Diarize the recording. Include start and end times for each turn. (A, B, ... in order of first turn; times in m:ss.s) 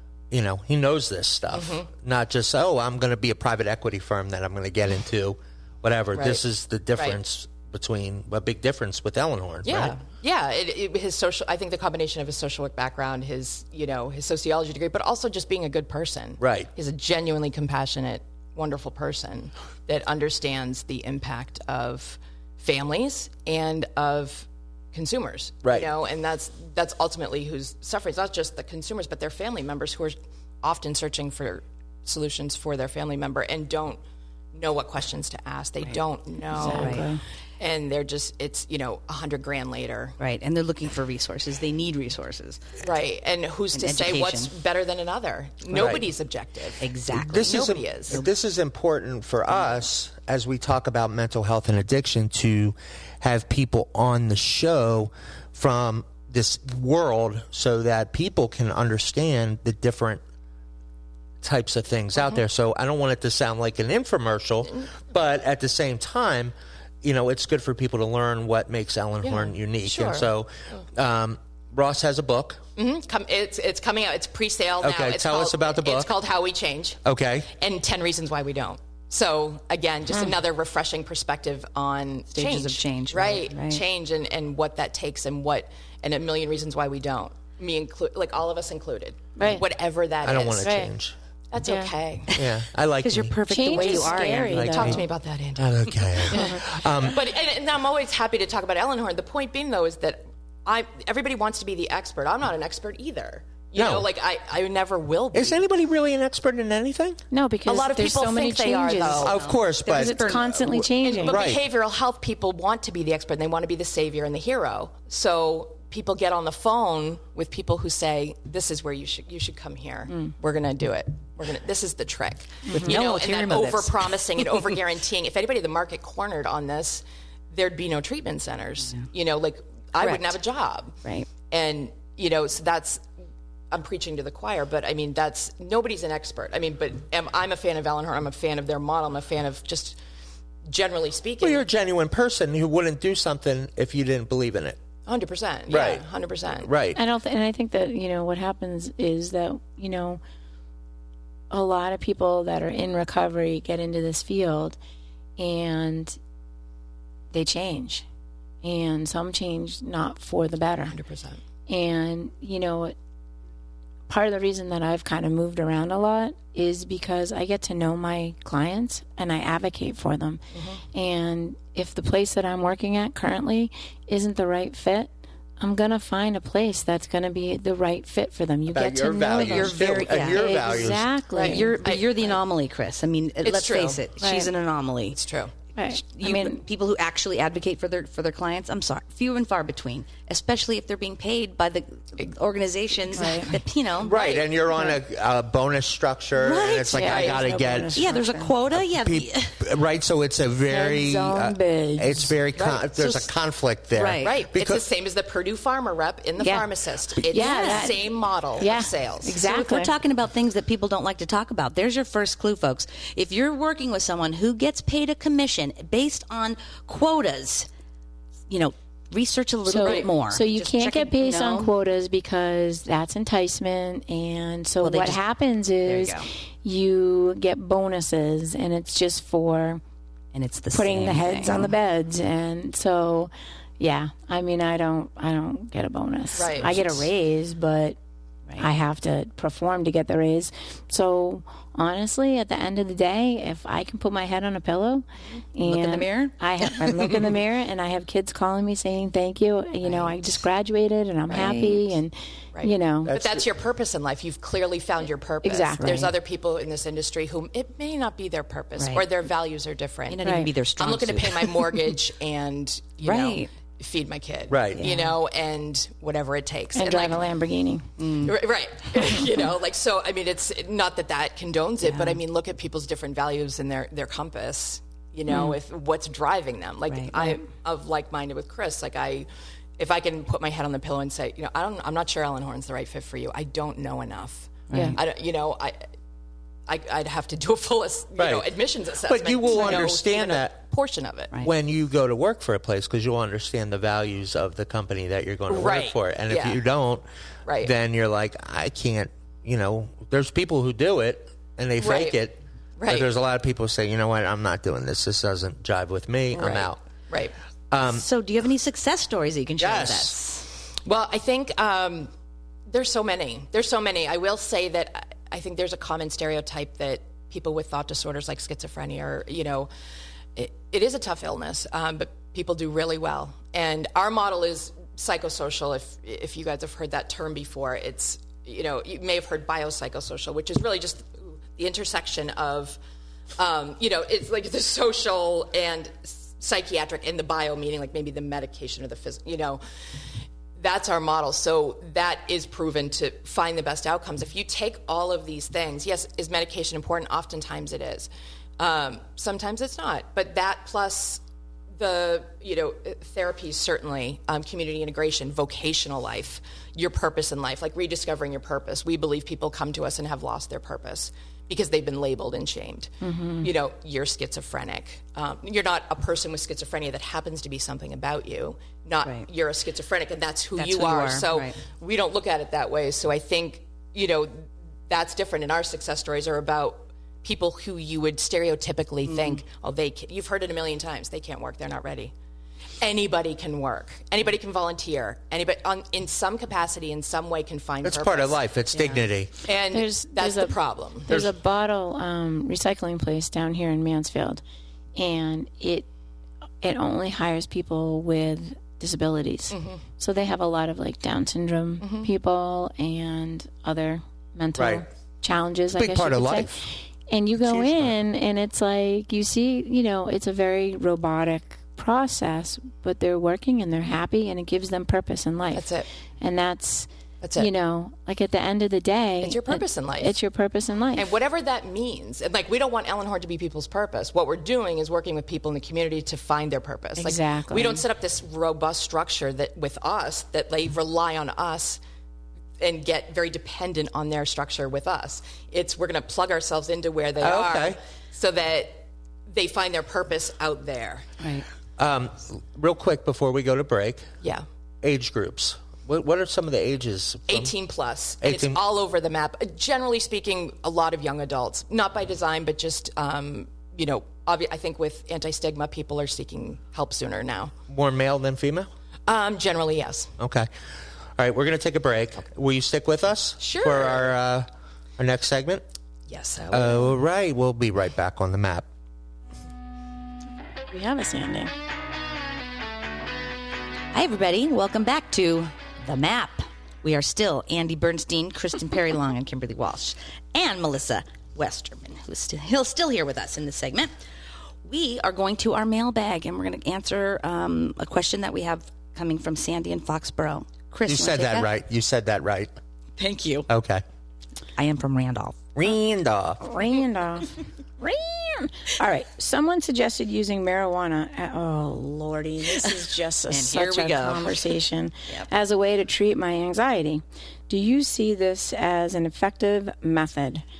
0:00.3-0:10.0 A
0:01.5-0:01.9 B
0:06.1-0:06.4 B
0:09.6-0:34.0 B
0:16.4-0:16.7 A
0:34.5-0:37.1 B
0:36.5-0:37.2 C
0:36.6-0:37.1 D
0:37.6-0:40.1 B
0:40.2-0:42.6 D
0:42.8-0:48.2 B
0:43.7-0:44.5 D
0:45.7-0:46.0 A
0:46.8-0:48.3 D
0:47.1-1:00.2 A
1:01.4-1:12.6 A
1:09.2-1:10.8 B
1:12.8-1:17.0 B
1:14.8-1:16.1 A
1:17.0-1:17.5 A
1:17.5-1:30.8 B
1:22.3-1:23.8 D
1:29.4-1:29.6 C
1:30.2-1:31.1 A
1:30.6-1:30.9 C
1:31.5-1:32.3 B
1:31.6-1:31.9 C
1:32.3-1:35.0 D
1:32.3-1:33.4 A
1:33.5-1:35.0 C
1:33.8-1:45.6 B
1:34.5-1:35.0 A
1:35.6-1:37.2 A
1:36.3-1:36.6 C
1:43.8-1:44.1 A
1:45.3-1:47.2 A
1:47.3-1:51.4 C
1:47.6-1:49.5 B
1:49.2-1:51.6 A
1:49.3-1:49.6 D
1:50.1-1:50.5 B
1:51.0-2:13.0 B
2:02.7-2:02.9 C
2:02.7-2:04.5 D
2:10.0-2:10.4 D
2:13.7-2:20.0 B
2:20.7-2:21.6 B
2:21.4-2:24.8 A
2:25.0-2:26.7 B
2:25.7-2:26.0 A
2:26.6-2:27.0 A
2:26.9-2:30.2 C
2:31.5-2:34.8 C
2:35.4-2:36.2 C
2:37.3-2:38.0 C
2:38.6-2:41.0 C
2:40.9-2:41.4 B
2:41.7-2:42.9 C
2:44.1-2:50.4 C
2:50.5-2:50.8 B
2:50.9-3:01.7 C
2:58.7-3:01.1 A
2:59.3-3:00.6 D
3:01.3-3:02.4 B
3:01.4-3:05.2 D
3:03.4-3:04.0 B
3:04.2-3:04.5 C
3:05.1-3:05.5 B
3:05.7-3:06.6 C
3:06.0-3:14.2 D
3:13.2-3:13.5 C
3:14.0-3:18.0 A
3:14.0-3:14.4 B
3:16.3-3:17.2 D
3:16.9-3:18.5 C
3:17.1-3:17.4 B
3:17.9-3:19.6 D
3:18.7-3:24.8 A
3:20.7-3:22.3 C
3:22.6-3:23.2 B
3:23.9-3:24.4 D
3:24.2-3:29.4 B
3:26.4-3:26.7 C
3:27.3-3:29.9 C
3:27.3-3:27.9 D
3:29.4-3:37.7 D
3:38.5-3:41.7 D
3:39.7-3:49.8 C
3:44.8-3:45.2 D
3:45.8-3:46.3 D
3:50.3-3:51.7 D
3:50.7-3:58.0 C
3:56.3-3:57.0 B
3:58.6-4:13.1 C
4:05.6-4:06.3 D
4:06.9-4:07.3 D
4:11.3-4:11.9 D
4:12.5-4:20.2 B
4:13.0-4:13.4 A
4:15.4-4:16.1 C
4:18.8-4:19.0 D
4:20.1-4:21.8 D
4:20.2-4:20.5 C
4:20.8-4:27.2 B
4:23.0-4:23.5 D
4:24.5-4:24.8 A
4:24.8-4:25.2 D
4:26.7-4:27.9 C
4:28.0-4:28.3 D
4:28.2-4:45.8 B
4:31.8-4:32.2 D
4:36.9-4:37.3 D
4:44.7-4:45.0 D
4:44.7-4:45.0 C
4:46.7-4:51.5 B
4:48.2-4:48.5 A
4:49.0-4:50.6 A
4:51.4-4:57.0 A
4:55.5-4:56.6 B
4:57.4-4:57.7 B
4:57.6-5:06.8 A
5:01.8-5:02.2 B
5:02.8-5:03.1 B
5:06.3-5:07.3 B
5:07.7-5:08.0 A
5:07.8-5:10.4 D
5:09.6-5:10.2 A
5:10.8-5:12.1 B
5:12.7-5:19.7 B
5:20.4-5:32.8 B
5:33.4-5:39.6 B
5:40.6-5:51.2 B
5:51.8-6:22.1 B
6:03.0-6:03.5 C
6:10.6-6:11.6 D
6:19.0-6:19.4 D
6:22.8-6:28.4 B
6:27.8-6:29.3 A
6:28.7-6:29.0 D
6:29.4-6:31.2 B
6:29.7-6:34.4 C
6:35.0-6:35.9 C
6:36.6-6:55.7 C
6:39.5-6:39.8 B
6:41.8-6:42.1 B
6:44.6-6:44.8 A
6:45.7-6:46.6 A
6:47.4-6:47.9 A
6:55.5-6:55.9 B
6:56.2-7:01.1 C
6:57.2-6:57.5 B
6:59.2-7:00.2 B
7:01.0-7:11.8 B
7:07.0-7:07.8 C
7:12.6-7:21.1 B
7:17.2-7:17.8 A
7:21.2-7:21.4 D
7:21.8-7:24.1 A
7:24.8-7:27.5 A
7:27.3-7:37.5 B
7:28.2-7:28.6 A
7:37.7-7:38.7 A
7:39.1-7:40.1 B
7:40.2-7:40.5 A
7:41.2-7:45.6 A
7:43.4-7:44.1 B
7:46.1-7:47.0 B
7:46.5-7:48.6 A
7:50.7-7:51.5 C
7:53.9-8:03.9 D
8:04.6-8:11.5 D
8:10.8-8:12.5 A
8:13.0-8:13.5 D
8:13.5-8:13.8 A
8:14.6-8:15.4 D
8:15.6-8:16.4 A
8:16.4-8:30.4 C
8:23.3-8:24.4 D